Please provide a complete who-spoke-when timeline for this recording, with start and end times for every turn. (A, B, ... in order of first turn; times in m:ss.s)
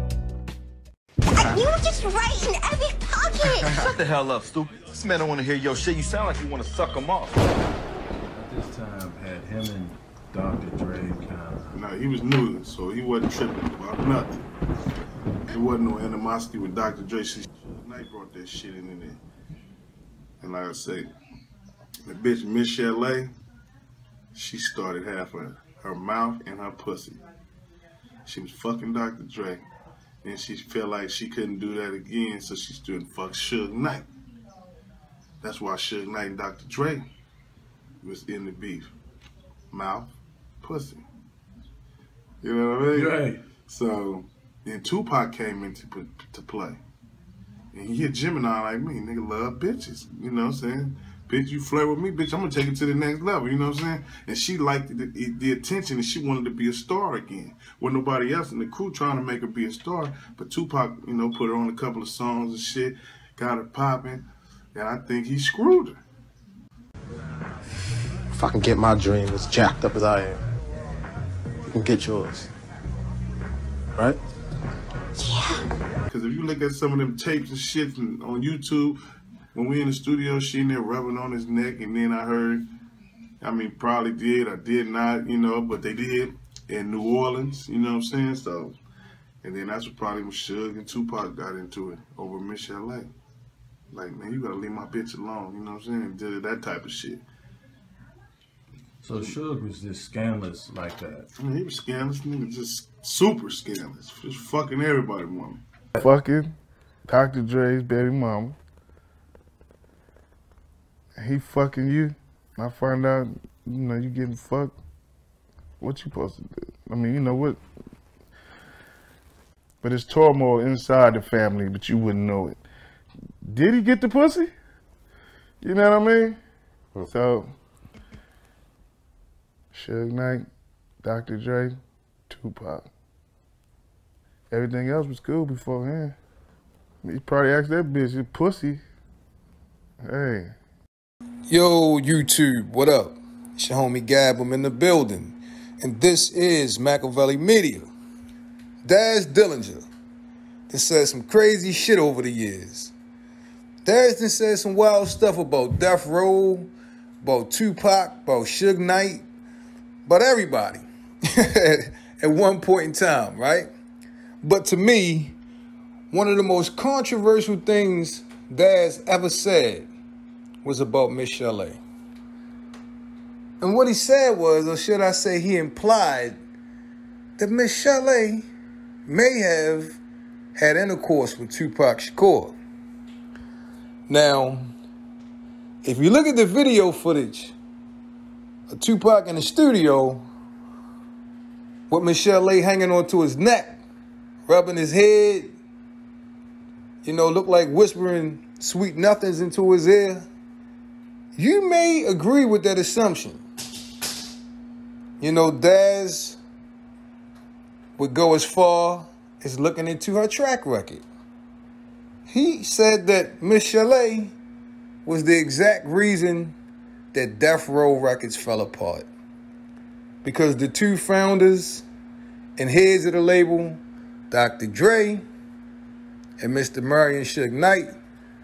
0:01.3-0:04.0 A
0:03.7-0:07.4 B
0:08.3-0:11.8 C
0:11.7-0:14.3 D
0:15.5-0:19.0 D
0:18.6-0:19.1 E
0:20.4-0:21.0 D
0:22.0-0:23.3 D
0:24.4-0:27.2 D
0:28.3-0:29.6 D
0:30.2-0:33.9 D
0:32.9-0:33.7 E
0:35.4-0:37.0 E
0:35.5-0:37.0 D
0:38.0-0:38.8 E
0:38.2-0:38.7 D
0:39.8-0:40.1 D
0:40.6-0:41.0 E
0:42.6-0:43.2 D
0:42.9-0:43.4 C
0:43.8-0:44.3 D
0:44.7-0:45.5 E
0:44.8-0:46.8 D
0:46.1-0:46.6 E
0:47.7-0:48.4 E
0:47.8-0:49.8 D
0:49.3-0:50.4 E
0:50.4-1:04.2 D
0:51.8-0:52.2 E
1:04.7-1:06.0 D
1:08.3-1:10.4 F
1:11.7-1:12.5 F
1:16.1-1:19.0 D
1:19.5-1:22.6 D
1:23.4-1:28.8 D
1:29.6-1:33.1 D
1:34.0-1:37.2 D
1:39.0-1:41.3 C
1:41.4-1:45.6 D
1:42.8-1:43.2 E
1:46.0-1:46.5 E
1:47.1-1:48.6 E
1:51.2-1:54.8 E
1:55.8-1:57.6 E
1:59.8-2:02.6 E
2:03.5-2:04.5 E
2:05.6-2:06.4 E
2:07.0-2:07.5 E
2:09.7-2:10.5 E
2:11.0-2:11.8 E
2:12.3-2:12.9 E
2:14.5-2:16.2 E
2:17.0-2:18.8 E
2:20.0-2:20.5 E
2:21.5-2:27.9 G
2:28.8-2:29.9 G
2:30.7-2:32.9 G
2:33.8-2:39.3 G
2:40.0-2:43.7 G
2:44.4-2:45.4 G
2:46.1-2:49.9 G
2:50.6-2:51.8 G
2:53.6-2:56.4 G
2:57.4-2:58.5 G
2:59.1-3:00.0 G
3:00.5-3:02.6 G
3:04.1-3:04.7 G
3:05.8-3:07.5 G
3:08.7-3:10.3 G
3:11.9-3:13.8 G
3:14.5-3:15.6 G
3:17.0-3:20.3 G
3:21.4-3:23.4 G
3:25.2-3:26.4 G
3:28.0-3:31.0 G
3:32.3-3:34.4 G
3:35.0-3:36.6 G
3:37.1-3:39.1 G
3:40.2-3:41.8 G
3:42.6-3:45.2 G
3:46.4-3:47.9 G